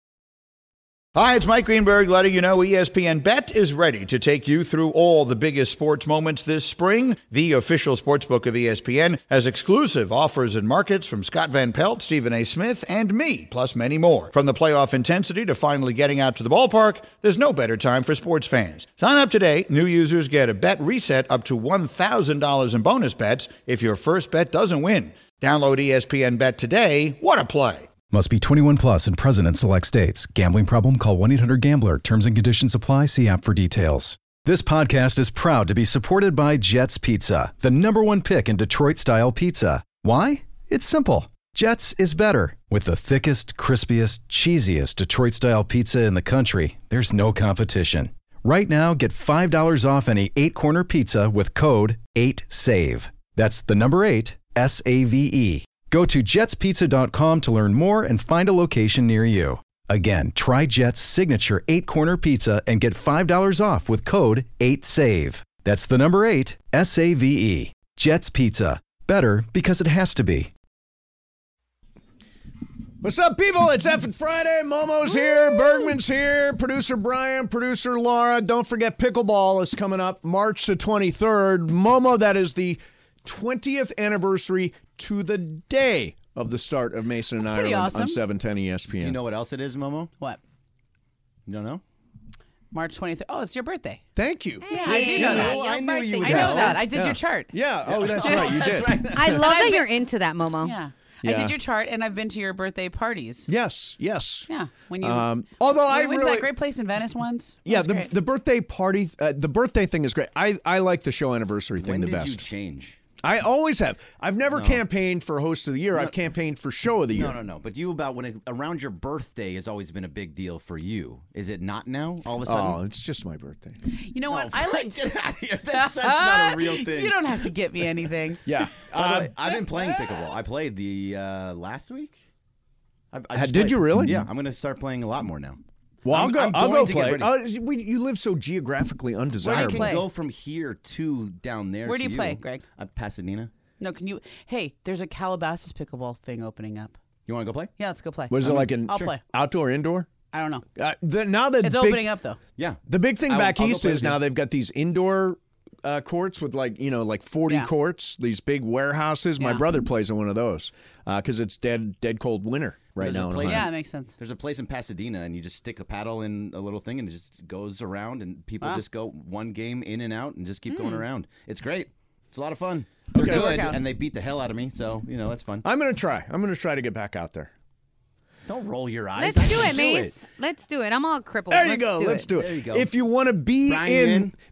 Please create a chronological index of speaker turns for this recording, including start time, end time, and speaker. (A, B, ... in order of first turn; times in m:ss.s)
0:01.1-0:27.9 A
0:28.1-1:10.5 B
1:13.0-1:29.2 C
1:27.4-1:28.2 D
1:29.0-1:30.1 E
1:31.4-1:31.8 E
1:32.7-1:34.0 D
1:34.2-1:35.5 C
1:34.6-1:36.7 F
1:34.7-1:37.6 D
1:34.8-1:36.8 E
1:36.2-1:39.3 C
1:37.9-1:39.5 E
1:38.2-1:38.6 D
1:39.1-1:40.8 F
1:39.4-1:39.8 D
1:40.6-1:43.5 D
1:41.2-1:41.5 C
1:43.5-1:44.5 C
1:44.5-1:48.1 D
1:45.0-1:46.5 C
1:47.6-1:52.4 C
1:51.8-1:53.0 E
1:53.2-1:57.4 C
1:54.5-1:54.8 E
1:57.1-2:02.8 E
2:02.4-2:03.8 C
2:03.9-2:05.1 D
2:04.3-2:07.5 E
2:05.7-2:08.4 D
2:08.4-2:09.3 C
2:08.8-2:12.2 E
2:13.1-2:17.3 E
2:13.3-2:14.3 C
2:16.0-2:19.9 C
2:19.4-2:20.1 D
2:19.4-2:23.5 E
2:21.8-2:22.6 D
2:23.8-2:27.0 D
2:27.2-2:27.7 E
2:27.8-2:29.2 D
2:28.3-2:30.1 C
2:28.4-2:29.1 E
2:30.3-2:30.6 D
2:30.8-2:32.1 C
2:31.6-2:32.4 D
2:32.6-2:34.2 E
2:32.9-2:43.6 C
2:39.4-2:39.6 D
2:43.0-2:55.6 E
2:43.4-2:44.2 D
2:53.1-2:53.8 C
2:53.2-2:53.7 F
2:55.6-2:57.5 C
2:58.4-3:00.2 E
2:59.2-3:02.3 F
3:01.5-3:04.3 C
3:02.3-3:02.9 E
3:03.6-3:04.3 E